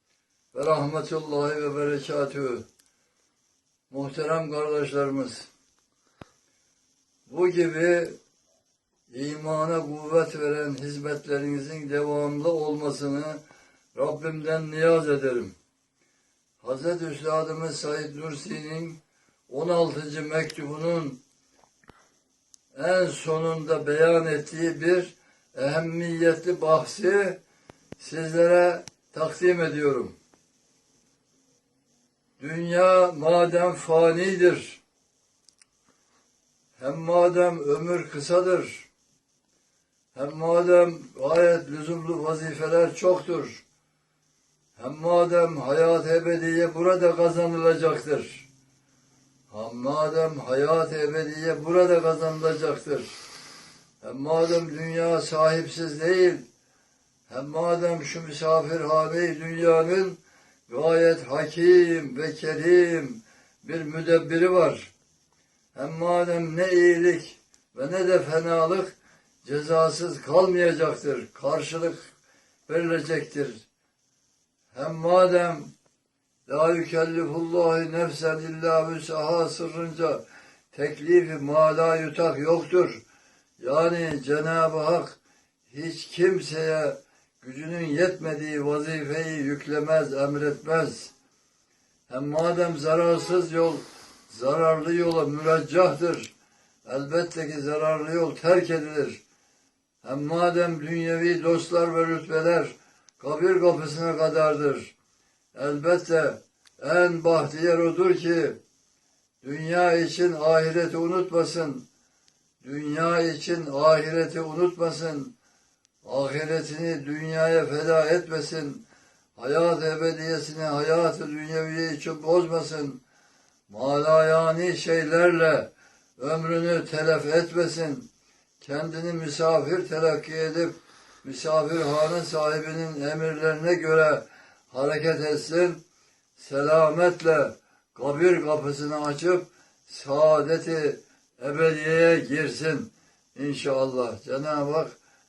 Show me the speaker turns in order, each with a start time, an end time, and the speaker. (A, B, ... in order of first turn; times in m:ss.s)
0:00.5-0:02.6 A
0:03.9-0:05.5 A
0:07.3-0:08.2 A
0:09.1-0:13.4 A
0:13.9-0:15.5 A
0:16.6-0:21.2 A
0:22.7-0:27.4 A
0:28.0-0:30.2 A
0:32.4-0:34.8 A
0:36.8-0:38.9 A
0:40.1-0:43.6 A
0:44.8-0:48.5 A
0:49.5-0:53.1 A
0:54.0-0:56.4 A
0:57.3-1:04.9 A
1:05.7-1:12.1 A
1:12.7-1:13.6 A
1:14.7-1:15.7 A
1:16.5-1:23.0 A
1:23.6-1:31.1 A
1:32.1-1:36.3 A
1:36.8-1:39.2 A
1:40.0-1:45.0 A
1:45.5-1:48.6 A
1:49.4-1:51.9 A
1:52.6-1:55.3 A
1:56.0-1:58.8 A
1:59.4-2:03.0 A
2:03.7-2:08.1 A
2:08.6-2:15.8 A
2:16.4-2:25.0 A